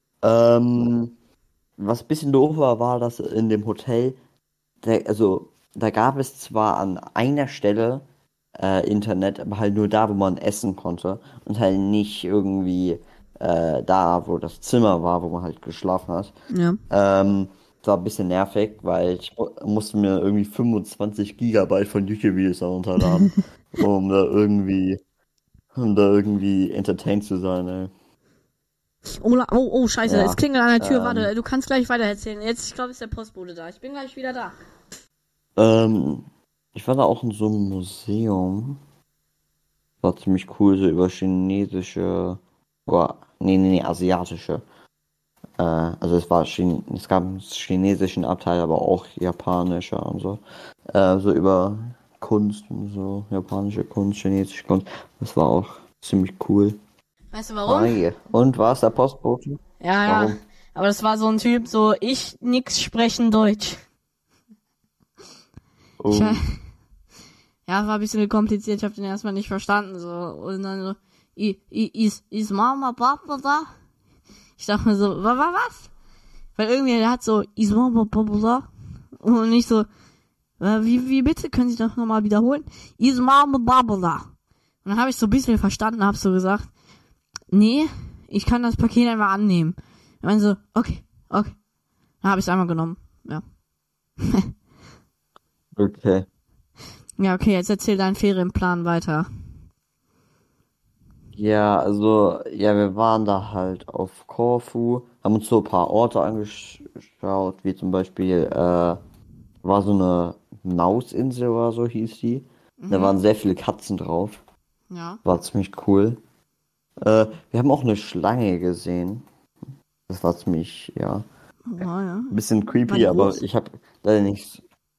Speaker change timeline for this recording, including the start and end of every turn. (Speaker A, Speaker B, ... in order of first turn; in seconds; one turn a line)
Speaker A: 0.2-1.1
Speaker A: 1.8-4.2
Speaker A: 4.8-8.0
Speaker A: 8.6-16.3
Speaker B: 16.5-16.8
Speaker A: 16.9-25.0
Speaker A: 25.7-27.9
Speaker B: 29.2-34.5
Speaker A: 30.1-31.3
Speaker A: 35.6-38.8
Speaker A: 40.0-44.6
Speaker A: 45.6-50.4
Speaker A: 50.9-56.8
Speaker B: 57.3-58.0
Speaker A: 57.7-60.4
Speaker B: 59.8-63.8
Speaker A: 66.0-66.4
Speaker B: 66.1-66.4
Speaker B: 67.7-73.7
Speaker B: 74.6-75.9
Speaker B: 76.6-78.7
Speaker B: 79.2-79.9
Speaker B: 80.6-84.3
Speaker B: 84.8-86.7
Speaker B: 87.5-91.5
Speaker B: 92.2-93.4
Speaker B: 94.2-94.5
Speaker A: 95.8-96.3
Speaker B: 97.2-99.3
Speaker A: 101.3-109.0
Speaker A: 109.6-114.4
Speaker B: 112.8-113.2
Speaker B: 114.9-115.2
Speaker A: 115.2-116.2
Speaker A: 117.0-119.3
Speaker A: 120.1-121.2
Speaker B: 121.7-122.4
Speaker A: 122.3-124.6
Speaker B: 122.9-123.4